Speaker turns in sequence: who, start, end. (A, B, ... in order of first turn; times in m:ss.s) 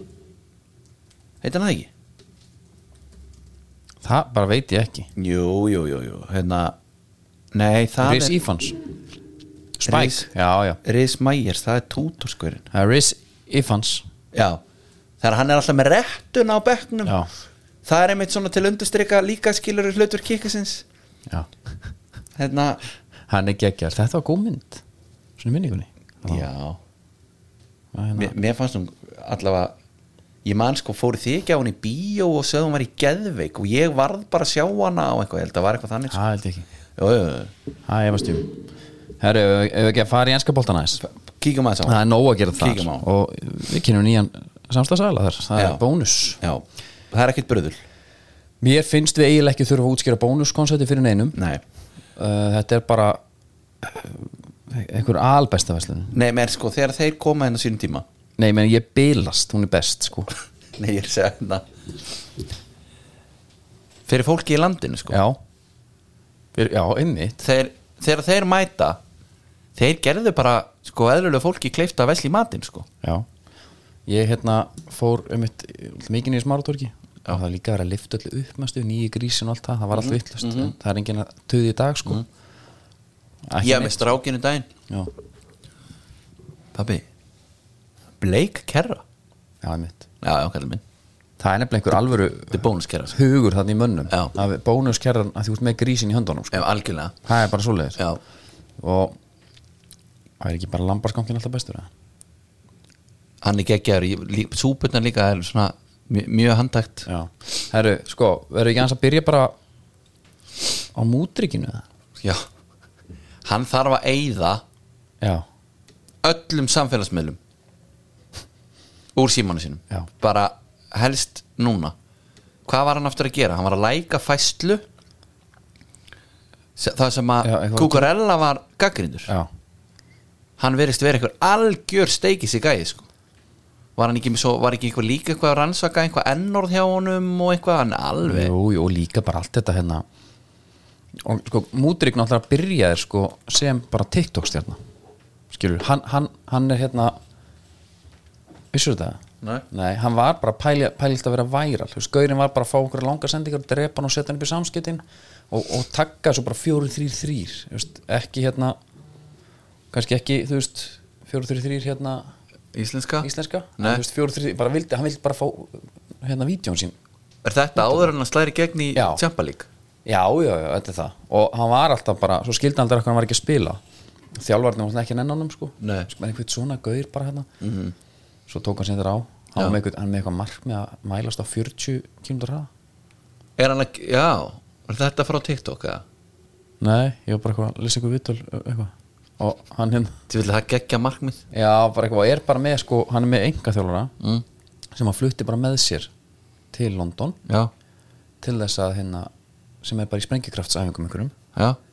0:01.4-0:01.9 A
0:04.0-0:05.1 B
0:05.2-0:06.8 A
0:07.5-0:08.4 A
0:08.0-0:08.8 B
0:09.8-0:10.8 B
0:09.9-0:10.3 A
0:10.8-0:12.7 A
0:12.7-0:14.0 B
0:14.3-0:14.6 A
0:15.2-0:17.2 A
0:17.9-0:20.8 A
0:22.4-0:22.8 A
0:23.3-0:24.8 B
0:25.4-0:26.4 B
0:26.2-0:26.8 A
0:27.9-0:28.3 B
0:28.2-0:29.8 A
0:30.4-0:36.2 A
0:36.1-0:36.7 B
0:37.0-0:37.5 A
0:37.9-0:38.6 B
0:39.2-0:41.0 B
0:41.0-0:42.0 A
0:41.8-0:46.4 B
0:42.6-0:43.1 A
0:45.6-0:45.8 A
0:46.4-0:47.8 A
0:48.6-0:51.4 B
0:51.4-0:51.6 A
0:52.2-0:53.2 B
0:53.8-0:56.1 B
0:56.1-0:58.0 A
0:58.4-1:00.3 B
1:00.8-1:01.6 A
1:04.1-1:05.2 A
1:05.1-1:05.4 B
1:06.6-1:07.4 B
1:07.4-1:09.0 A
1:09.8-1:12.9 A
1:14.1-1:22.2 B
1:19.9-1:20.7 A
1:23.5-1:24.1 B
1:23.6-1:24.7 A
1:26.8-1:27.0 A
1:28.2-1:29.0 A
1:29.6-1:30.0 B
1:30.2-1:30.8 A
1:31.4-1:36.7 B
1:32.5-1:33.2 A
1:34.1-1:34.3 A
1:36.5-1:37.1 A
1:37.2-1:38.0 B
1:38.8-1:39.2 B
1:40.4-1:41.9 B
1:43.4-1:47.1 A
1:47.1-1:49.6 B
1:51.0-1:51.8 B
1:53.4-1:54.6 A
1:56.2-1:57.4 A
1:59.2-2:01.9 A
2:02.7-2:04.8 A
2:06.8-2:09.3 A
2:07.4-2:08.1 B
2:10.6-2:13.1 A
2:14.0-2:18.5 A
2:18.3-2:20.0 B
2:21.2-2:24.8 B
2:25.5-2:27.2 B
2:28.7-2:29.2 B
2:29.7-2:38.8 B
2:39.9-2:42.3 B
2:42.7-2:44.0 A
2:43.2-2:47.0 B
2:47.4-2:49.7 A
2:47.8-2:48.1 B
2:49.0-2:49.2 B
2:50.1-2:53.8 B
2:54.4-2:57.5 B
2:55.8-2:56.1 A
2:57.6-2:57.9 A
2:58.5-3:02.7 B
3:03.6-3:06.0 A
3:06.8-3:10.2 B
3:10.3-3:11.4 A
3:11.5-3:14.2 B
3:14.9-3:16.1 B
3:16.7-3:17.4 B
3:17.5-3:17.7 A
3:18.4-3:19.3 B
3:19.8-3:21.3 B